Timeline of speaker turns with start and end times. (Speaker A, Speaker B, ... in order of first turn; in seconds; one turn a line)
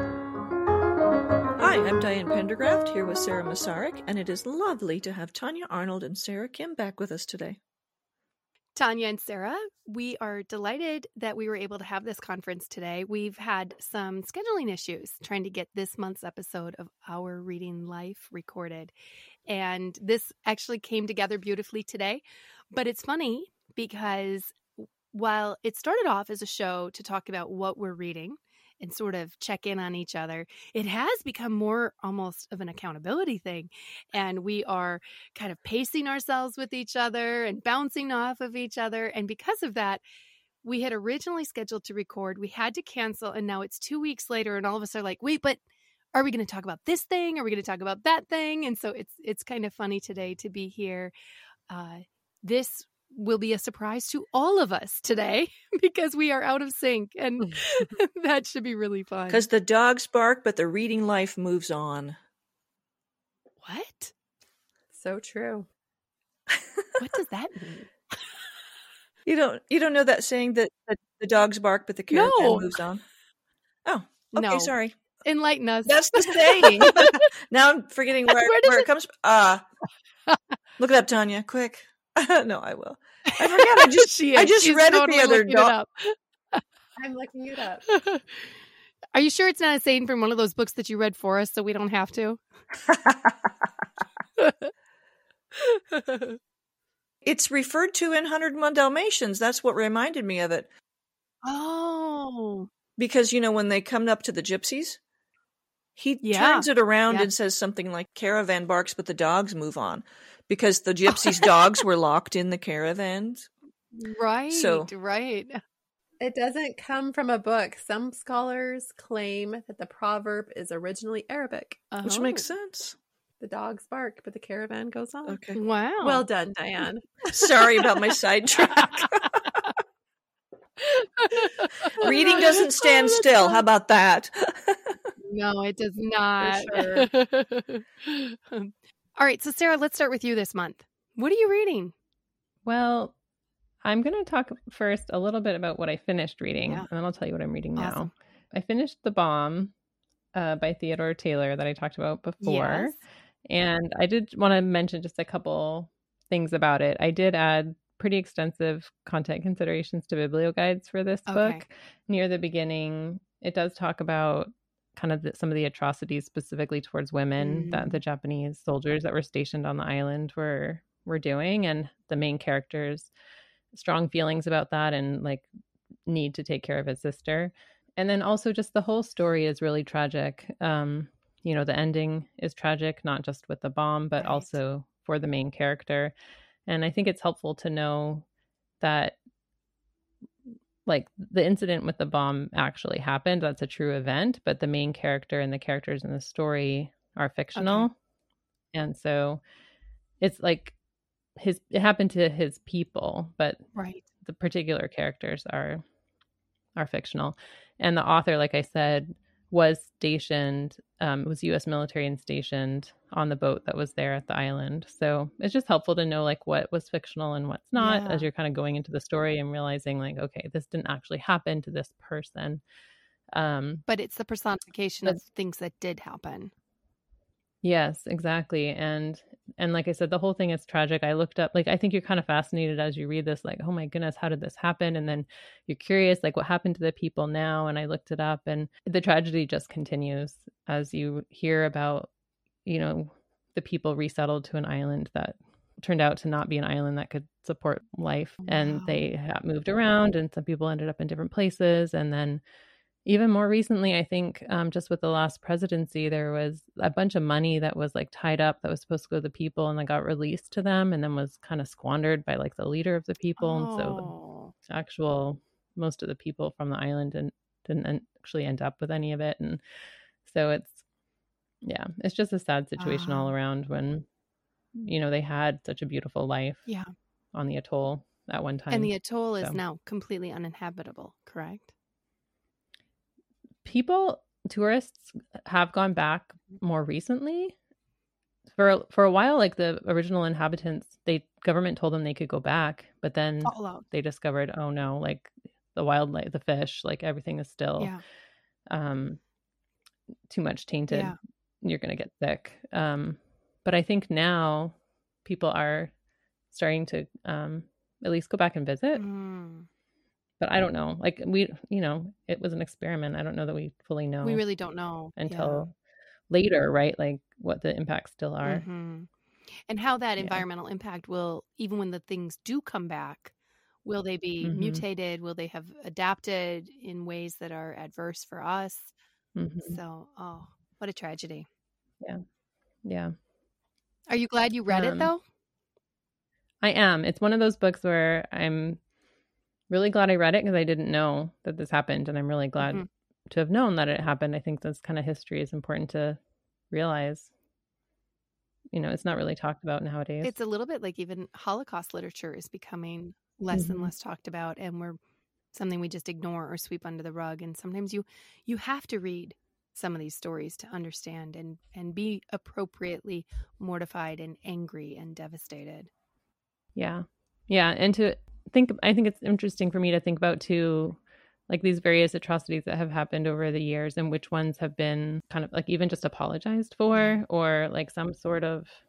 Speaker A: 1.6-7.6
Speaker B: 8.7-18.9
Speaker B: 19.5-40.0
Speaker B: 40.6-45.6
Speaker B: 46.1-51.1
Speaker B: 51.7-59.5
Speaker A: 59.3-62.2
Speaker B: 63.6-64.1
Speaker C: 64.9-65.7
Speaker A: 66.5-67.0
Speaker B: 67.0-67.9
Speaker A: 69.2-73.0
Speaker B: 72.1-72.8
Speaker A: 73.8-75.0
Speaker B: 74.3-77.2
Speaker A: 75.8-79.6
Speaker B: 78.3-78.9
Speaker A: 80.8-85.7
Speaker B: 83.3-86.6
Speaker C: 87.0-87.8
Speaker B: 87.9-88.4
Speaker B: 89.1-92.4
Speaker A: 92.9-93.5
Speaker B: 94.4-94.7
Speaker B: 95.6-96.4
Speaker A: 97.2-100.7
Speaker B: 101.4-102.7
Speaker A: 103.0-105.0
Speaker A: 106.0-113.5
Speaker B: 106.2-107.3
Speaker B: 113.9-115.6
Speaker A: 114.5-114.9
Speaker C: 116.2-121.9
Speaker B: 121.9-122.4
Speaker A: 122.0-123.0
Speaker C: 123.4-125.5
Speaker A: 125.2-125.6
Speaker B: 125.5-126.2
Speaker C: 126.0-127.3
Speaker A: 127.3-129.6
Speaker B: 130.8-133.6
Speaker A: 132.0-135.1
Speaker C: 132.0-132.4
Speaker B: 135.2-141.9
Speaker A: 136.4-137.1
Speaker D: 142.6-143.1
Speaker D: 143.8-149.7
Speaker B: 147.8-148.1
Speaker D: 150.3-173.1
Speaker B: 152.4-153.0
Speaker B: 161.3-161.6
Speaker B: 167.4-168.0
Speaker D: 173.7-175.5
Speaker D: 176.1-186.1
Speaker B: 184.2-184.5
Speaker D: 186.7-188.2
Speaker D: 188.8-189.2
Speaker D: 190.8-197.9
Speaker B: 197.5-197.9
Speaker D: 198.7-199.4
Speaker D: 200.2-200.7
Speaker D: 201.3-203.6
Speaker B: 203.7-204.0
Speaker D: 204.2-205.8
Speaker D: 206.8-222.6
Speaker B: 217.8-218.3
Speaker D: 223.3-223.8
Speaker B: 223.9-226.5
Speaker D: 227.6-242.1
Speaker D: 242.7-252.4
Speaker B: 248.4-249.0
Speaker D: 253.0-264.1
Speaker B: 263.4-264.5
Speaker D: 264.7-269.6
Speaker D: 270.2-270.8
Speaker D: 271.6-274.1
Speaker B: 272.8-273.3
Speaker D: 274.7-276.7
Speaker D: 277.3-279.6
Speaker B: 278.7-281.7
Speaker D: 283.6-287.6
Speaker D: 288.5-297.9
Speaker B: 293.4-293.8
Speaker D: 298.7-299.2
Speaker D: 300.3-305.9
Speaker B: 300.9-301.1
Speaker D: 306.5-309.0
Speaker B: 308.9-309.7
Speaker D: 310.4-314.4
Speaker B: 314.2-315.7
Speaker D: 315.1-315.7
Speaker D: 316.3-318.6
Speaker B: 318.4-319.1
Speaker B: 319.7-323.3
Speaker D: 320.2-320.4
Speaker B: 323.8-328.9
Speaker D: 324.4-324.8
Speaker D: 329.4-329.8
Speaker B: 329.7-331.5
Speaker D: 332.8-333.1
Speaker B: 334.1-335.2
Speaker D: 334.7-335.1
Speaker D: 336.6-338.8
Speaker D: 339.7-346.2
Speaker B: 342.6-342.9
Speaker D: 346.7-347.3
Speaker D: 348.7-350.3
Speaker B: 350.2-355.0
Speaker D: 353.5-353.9
Speaker B: 355.5-365.9
Speaker D: 366.8-378.7
Speaker B: 376.9-377.2